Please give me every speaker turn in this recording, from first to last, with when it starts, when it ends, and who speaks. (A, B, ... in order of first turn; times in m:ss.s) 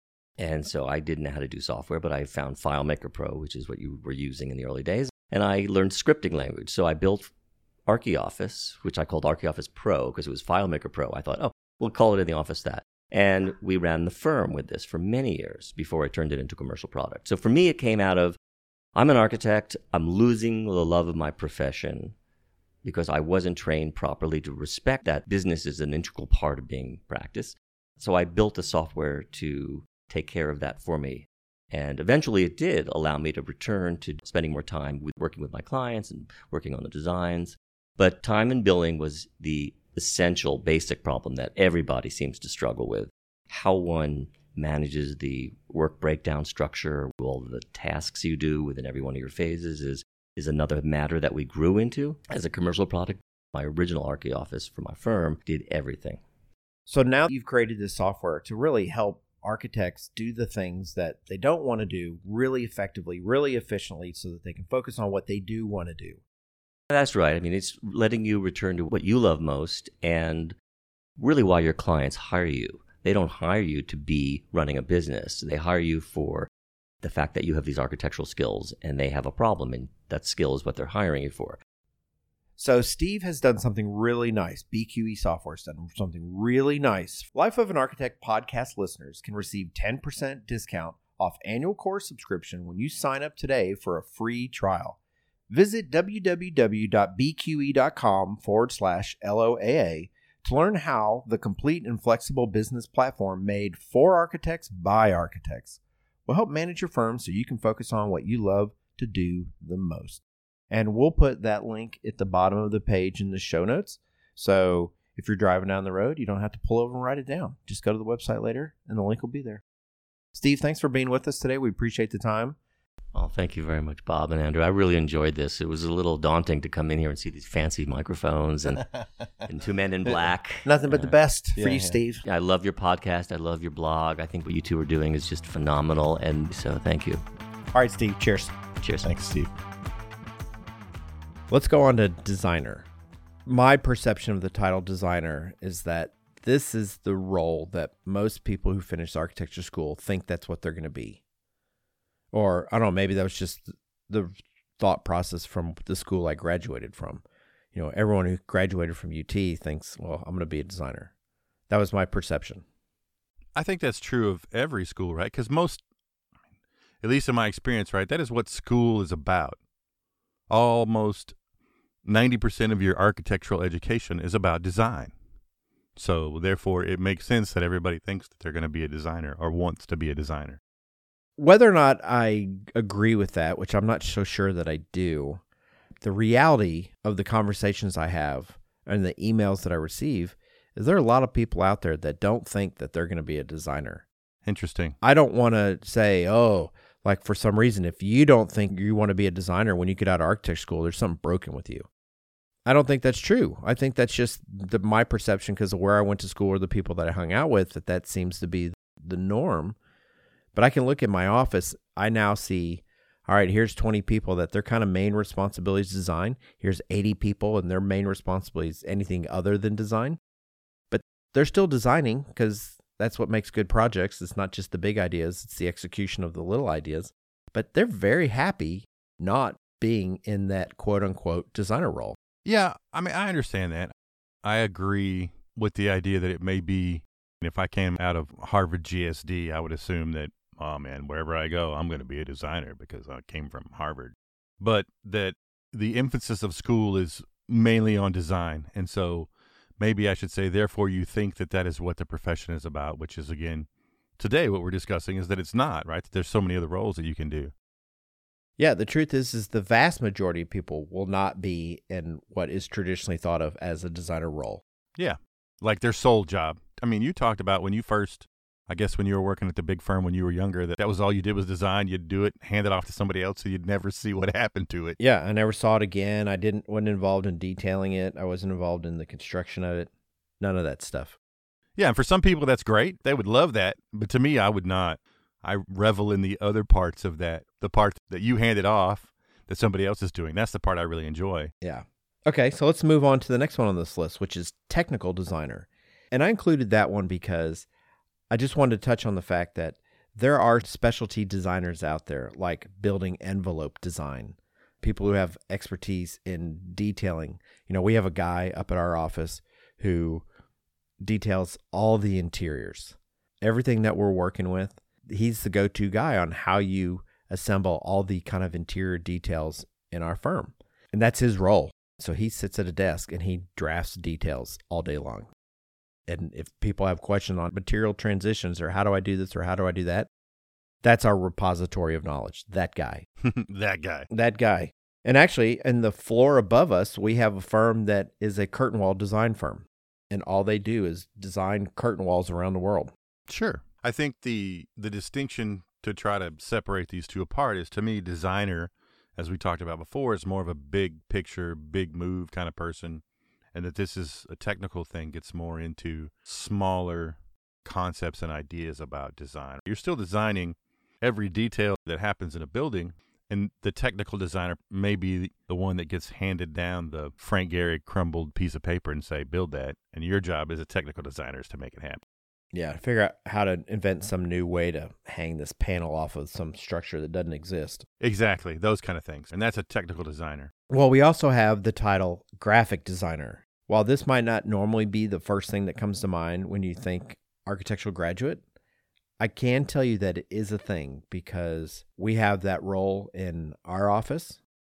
0:00.4-0:07.3 A
0:07.9-0:18.4 A
0:19.0-0:22.2 A
0:22.8-0:56.2 A
0:56.9-1:06.2 B
1:06.9-1:10.6 A
1:11.2-1:16.5 A
1:17.0-1:21.6 A
1:22.6-1:35.0 B
1:35.5-1:59.6 B
2:00.4-2:02.6 B
2:03.1-2:17.2 A
2:10.6-2:12.2 B
2:17.7-2:18.6 B
2:18.8-2:19.3 A
2:21.5-2:22.8 B
2:23.5-2:31.2 B
2:32.3-2:41.1 B
2:41.7-2:42.6 B
2:43.6-2:45.8 C
2:47.0-2:49.6 C
2:50.5-2:51.4 C
2:52.0-2:55.1 C
2:56.0-3:00.6 C
3:01.4-3:05.4 B
3:06.0-3:14.1 B
3:14.4-3:15.0 C
3:15.0-3:21.9 B
3:22.7-3:29.8 B
3:30.6-3:40.2 B
3:40.9-3:52.2 B
3:52.4-3:53.9 C
3:54.4-4:17.5 C
4:18.6-4:24.6 B
4:25.0-4:35.0 C
4:35.0-4:41.2 B
4:41.8-4:51.5 C
4:51.6-4:57.7 B
4:58.3-5:10.2 B
5:11.0-5:25.3 B
5:26.1-5:30.1 B
5:30.8-5:33.0 B
5:33.2-5:34.1 C
5:34.1-5:42.9 B
5:43.3-5:53.0 C
5:53.5-6:12.0 C
6:12.5-6:17.9 B
6:18.0-6:20.5 C
6:20.7-6:28.4 B
6:29.2-6:34.4 B